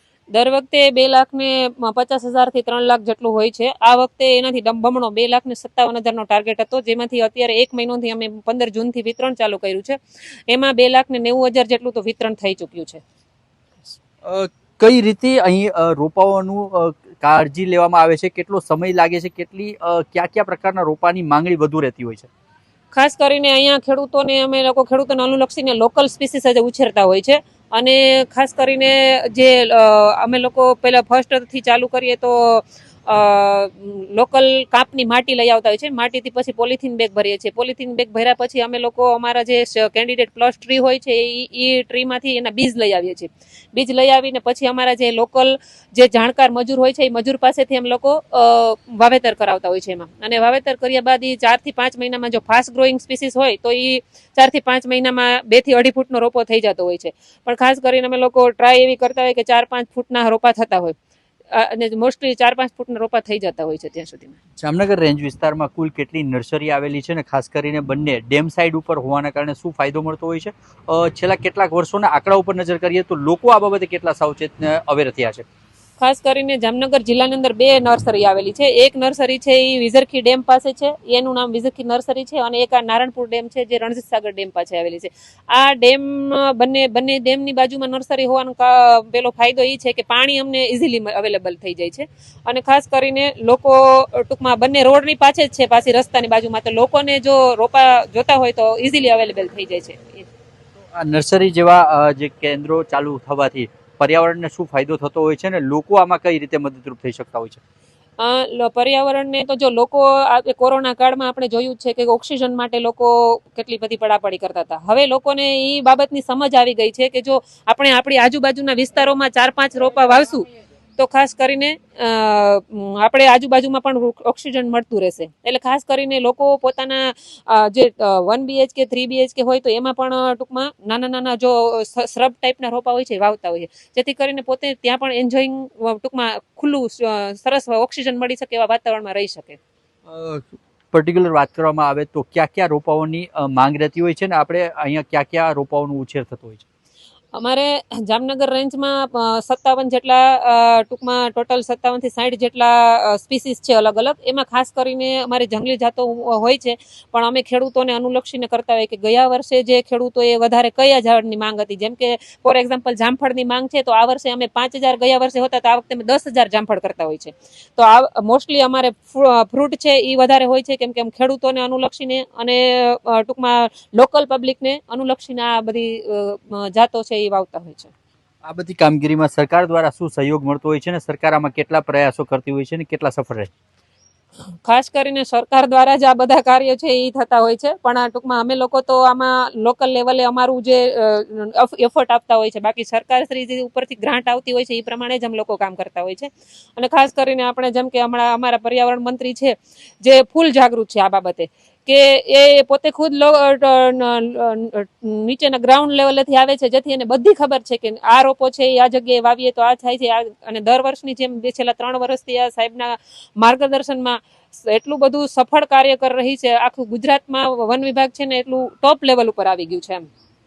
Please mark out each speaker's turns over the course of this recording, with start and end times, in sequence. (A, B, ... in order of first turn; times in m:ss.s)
0:00.3-0:13.0 A
0:14.2-0:22.3 B
0:22.9-1:01.0 A
1:01.5-1:04.4 A
1:04.6-1:15.4 B
1:16.0-1:40.3 A
1:40.9-1:47.6 B
1:48.2-2:00.4 A
2:01.0-2:19.6 A
2:20.1-2:26.6 B
2:27.3-2:57.9 A
2:58.4-3:03.5 B
3:04.5-3:40.1 A